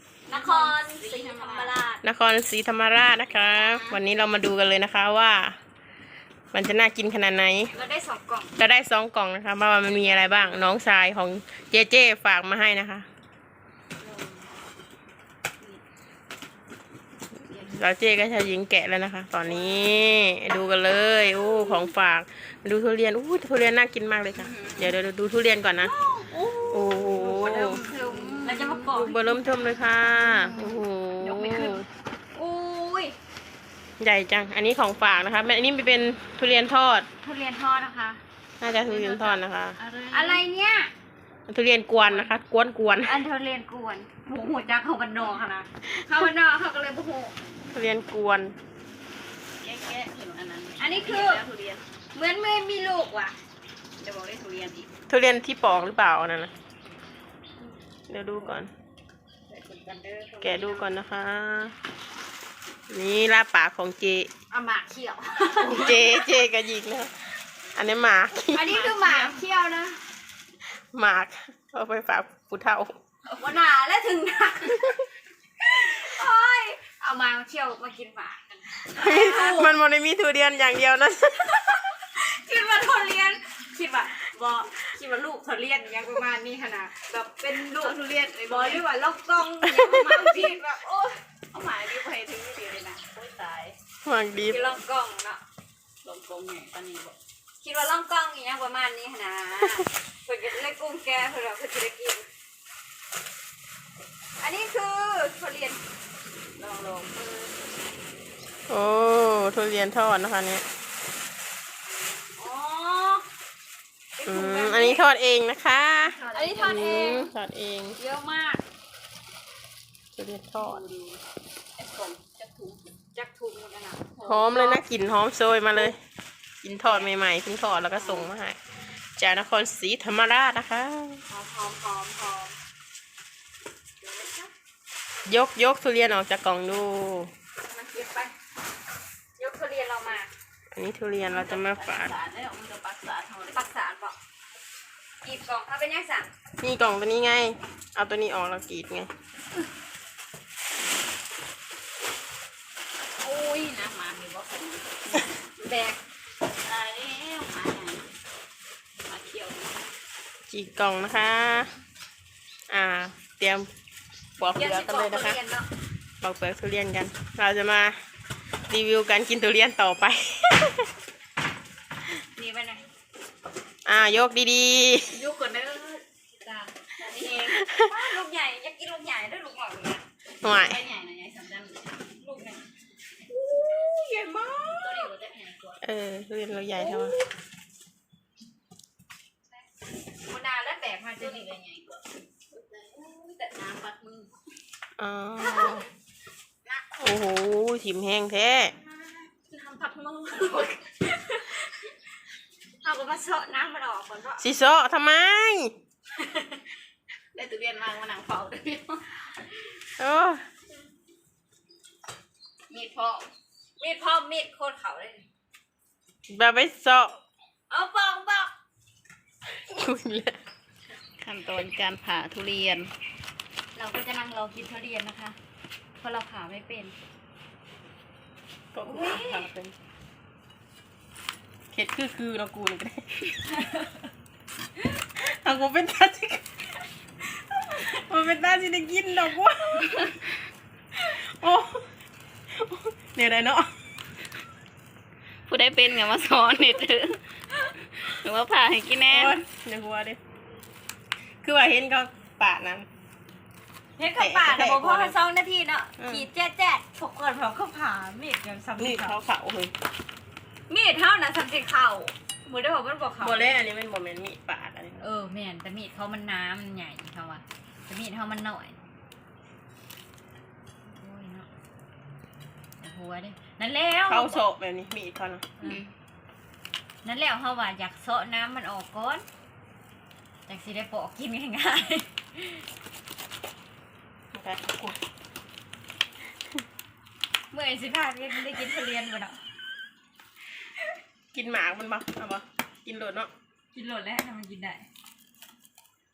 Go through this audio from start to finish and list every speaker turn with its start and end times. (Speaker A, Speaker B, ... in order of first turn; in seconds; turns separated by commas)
Speaker A: 0.3-2.0, Speaker B: 0.3-1.8, Speaker C: 2.0-5.6, Speaker B: 3.3-4.0, Speaker C: 6.5-7.7, Speaker A: 7.7-8.5, Speaker C: 8.6-13.1, Speaker A: 9.9-10.7, Speaker B: 14.0-14.3, Speaker C: 17.5-25.9, Speaker B: 24.4-24.9, Speaker B: 26.0-29.1, Speaker A: 26.1-30.7, Speaker C: 26.7-27.8, Speaker C: 28.9-31.9, Speaker A: 31.2-31.8, Speaker A: 32.3-33.1, Speaker C: 34.0-37.1, Speaker A: 37.2-38.2, Speaker C: 38.6-39.8, Speaker A: 38.8-39.4, Speaker B: 39.8-40.4, Speaker A: 40.1-40.9, Speaker C: 41.5-43.2, Speaker A: 43.0-47.3, Speaker C: 47.7-48.6, Speaker B: 49.6-51.8, Speaker A: 50.8-51.4, Speaker A: 52.1-53.4, Speaker B: 54.0-54.9, Speaker C: 55.1-56.5, Speaker C: 58.1-58.7, Speaker A: 59.5-60.9, Speaker C: 60.4-61.8, Speaker C: 62.9-64.3, Speaker A: 64.5-66.3, Speaker C: 65.6-67.2, Speaker C: 67.8-68.8, Speaker A: 68.5-70.0, Speaker B: 68.6-69.4, Speaker C: 70.9-73.0, Speaker A: 73.3-74.9, Speaker A: 75.6-79.8, Speaker C: 78.8-81.8, Speaker A: 81.9-91.1, Speaker B: 87.6-88.9, Speaker C: 89.7-90.1, Speaker B: 89.9-90.8, Speaker B: 91.5-93.8, Speaker C: 94.0-94.7, Speaker A: 94.5-95.4, Speaker B: 96.0-97.2, Speaker A: 97.6-102.3, Speaker A: 104.4-105.8, Speaker B: 106.6-107.5, Speaker C: 108.7-110.6, Speaker A: 112.3-113.2, Speaker A: 114.2-115.0, Speaker C: 114.3-118.0, Speaker B: 116.2-117.3, Speaker A: 116.2-117.3, Speaker A: 118.0-118.6, Speaker C: 120.2-120.8, Speaker B: 120.5-121.2, Speaker B: 121.8-122.9, Speaker A: 123.1-124.8, Speaker C: 124.2-126.0, Speaker B: 126.6-127.0, Speaker C: 126.8-128.6, Speaker C: 129.2-131.2, Speaker A: 131.3-132.6, Speaker C: 135.3-137.3, Speaker A: 137.7-138.3, Speaker A: 139.4-140.3, Speaker C: 140.7-142.1, Speaker B: 141.3-143.7, Speaker A: 143.5-144.2, Speaker A: 145.2-146.3, Speaker C: 146.6-149.1, Speaker B: 153.2-155.3, Speaker A: 155.6-156.0, Speaker B: 156.6-158.1, Speaker B: 159.1-159.8, Speaker C: 160.5-161.7, Speaker C: 162.7-163.7, Speaker C: 164.4-165.4, Speaker A: 164.6-165.7, Speaker C: 166.2-168.0, Speaker C: 168.7-170.9, Speaker A: 172.2-172.8, Speaker C: 173.9-175.2, Speaker B: 175.1-176.0, Speaker A: 176.4-176.7, Speaker B: 176.9-177.7, Speaker C: 177.5-177.9, Speaker A: 177.8-180.0, Speaker C: 180.4-180.8, Speaker B: 180.4-182.0, Speaker A: 182.2-182.7, Speaker B: 183.3-185.8, Speaker A: 184.8-185.1, Speaker C: 185.8-187.2, Speaker B: 186.8-187.2, Speaker A: 190.2-191.5, Speaker B: 191.2-194.3, Speaker A: 193.0-193.6, Speaker C: 195.0-195.9, Speaker C: 197.0-198.7, Speaker A: 199.4-201.7, Speaker A: 202.8-204.4, Speaker C: 204.4-205.7, Speaker B: 207.3-209.2, Speaker C: 210.0-210.4, Speaker B: 212.7-213.3, Speaker A: 213.8-215.2, Speaker C: 216.3-217.2, Speaker A: 217.7-218.5, Speaker C: 219.5-220.4, Speaker B: 221.2-222.9, Speaker A: 223.8-225.4, Speaker A: 226.0-227.0, Speaker C: 228.7-229.8, Speaker A: 228.9-229.5, Speaker C: 231.7-233.3, Speaker A: 233.5-233.9, Speaker C: 235.2-236.4, Speaker C: 237.6-240.2, Speaker C: 241.0-241.9, Speaker C: 242.6-243.7, Speaker B: 245.5-247.2, Speaker B: 247.8-249.4, Speaker C: 249.1-250.2, Speaker C: 251.4-252.9, Speaker A: 254.0-259.2, Speaker C: 254.0-255.2, Speaker C: 256.0-256.3, Speaker C: 258.8-259.7, Speaker A: 260.7-263.5, Speaker C: 263.2-265.1, Speaker A: 265.0-268.7, Speaker A: 270.9-271.5, Speaker A: 272.8-274.4, Speaker C: 274.1-275.5, Speaker B: 275.6-275.9, Speaker A: 277.1-279.2, Speaker A: 280.5-282.6, Speaker C: 284.3-285.0, Speaker A: 287.5-289.4, Speaker C: 291.3-293.3, Speaker A: 293.7-294.9